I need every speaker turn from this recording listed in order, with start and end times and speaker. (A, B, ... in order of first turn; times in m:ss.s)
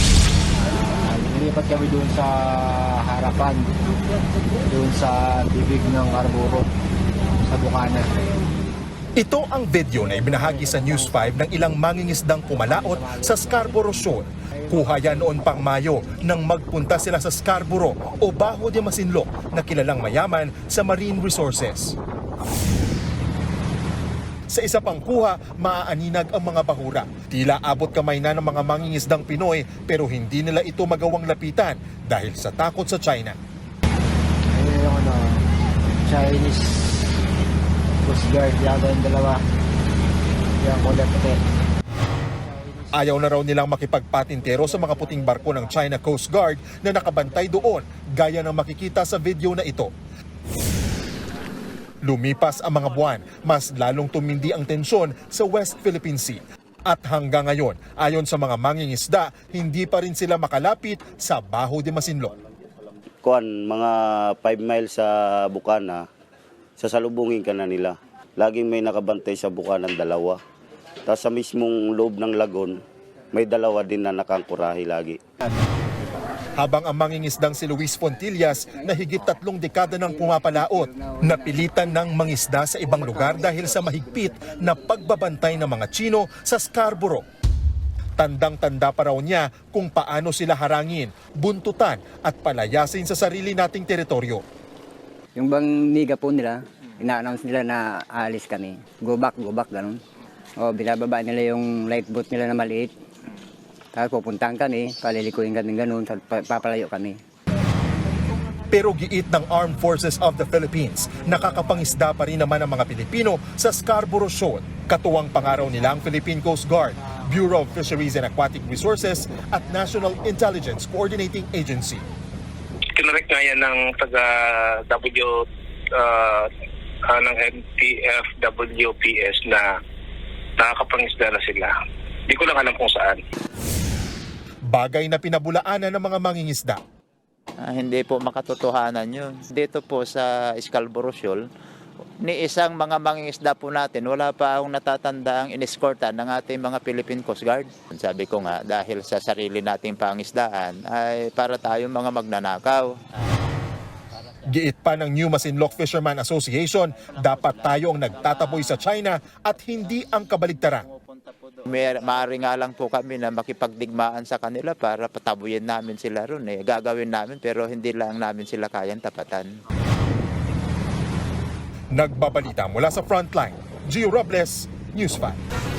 0:00.5-0:03.9 A
0:04.7-0:06.7 A
0:07.4-0:08.1 A
0:09.2-0:22.0 B
0:10.0-0:11.4 A
0:12.6-0:15.4 A
0:24.5-0:33.4 B
0:34.5-0:35.4 A
0:36.0-0:37.2 A
0:38.0-0:39.4 A
0:40.6-0:41.4 A
0:42.5-0:42.9 A
0:42.9-0:49.9 B
0:44.6-0:45.6 A
0:52.0-1:02.3 B
1:03.2-1:06.0 C
1:06.8-1:10.4 C
1:11.1-1:12.8 C
1:13.3-1:15.2 C
1:16.6-1:27.2 B
1:18.8-1:19.3 D
1:20.0-1:21.9 D
1:22.8-1:25.2 D
1:28.2-1:34.4 B
1:35.4-1:40.0 D
1:40.6-1:42.9 D
1:43.9-1:47.2 D
1:48.7-2:02.0 B
1:51.1-1:51.7 A
1:57.0-1:57.8 A
2:03.0-2:06.5 E
2:07.1-2:09.8 E
2:10.6-2:11.7 E
2:12.3-2:13.2 E
2:14.7-2:16.8 B
2:17.6-2:21.4 F
2:22.2-2:33.0 F
2:34.5-2:40.9 B
2:37.1-2:38.8 F
2:40.9-2:49.6 F
2:51.9-2:55.4 B